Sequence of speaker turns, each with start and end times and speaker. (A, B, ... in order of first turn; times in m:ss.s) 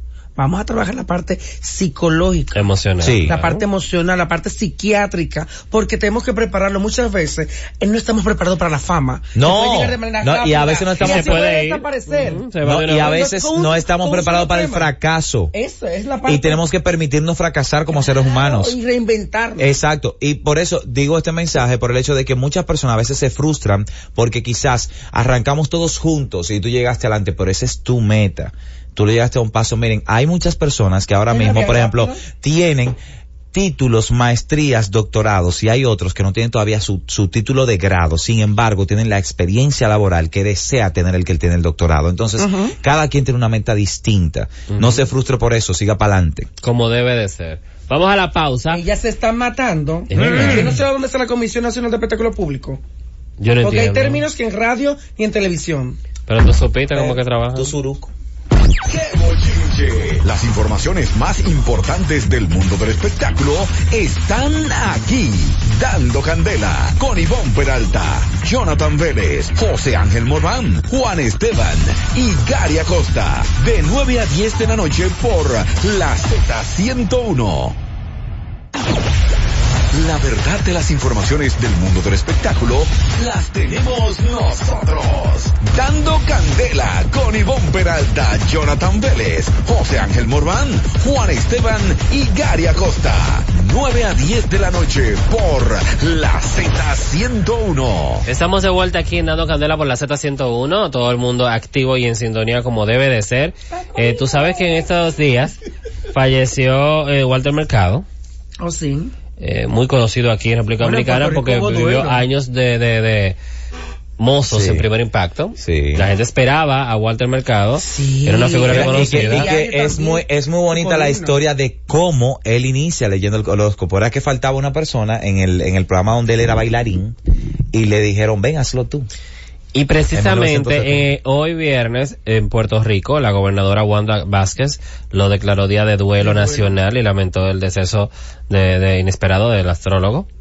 0:00.4-0:02.6 A
0:02.5-0:03.6 B
0:03.0-0:03.4 C
0:03.2-0:14.9 A
0:09.4-0:11.5 C
0:11.0-0:13.2 B
0:12.6-0:15.5 C
0:15.5-0:16.6 A
0:16.3-0:18.8 C
0:17.9-0:19.7 A
0:19.6-0:33.0 C
0:31.3-0:32.2 A
0:33.5-0:46.5 C
0:42.4-0:42.7 A
0:44.7-0:45.1 B
0:46.6-0:48.8 B
0:48.7-0:52.8 A
0:50.1-0:50.8 B
0:50.2-0:50.8 C
0:53.4-0:54.2 B
0:53.6-0:56.0 A
0:56.3-0:57.7 B
0:57.0-0:58.1 C
0:58.9-1:17.8 D
1:19.9-1:38.2 D
1:38.2-1:45.6 B
1:43.8-1:44.7 A
1:46.1-1:48.1 B
1:48.6-1:49.1 A
1:49.4-1:53.4 B
1:50.8-1:52.2 A
1:54.2-1:59.5 B
1:54.5-1:54.9 C
1:55.6-1:56.0 C
1:57.8-2:01.4 A
1:58.7-2:07.2 C
2:07.7-2:09.1 C
2:09.7-2:20.3 B
2:10.1-2:11.1 C
2:16.2-2:16.8 A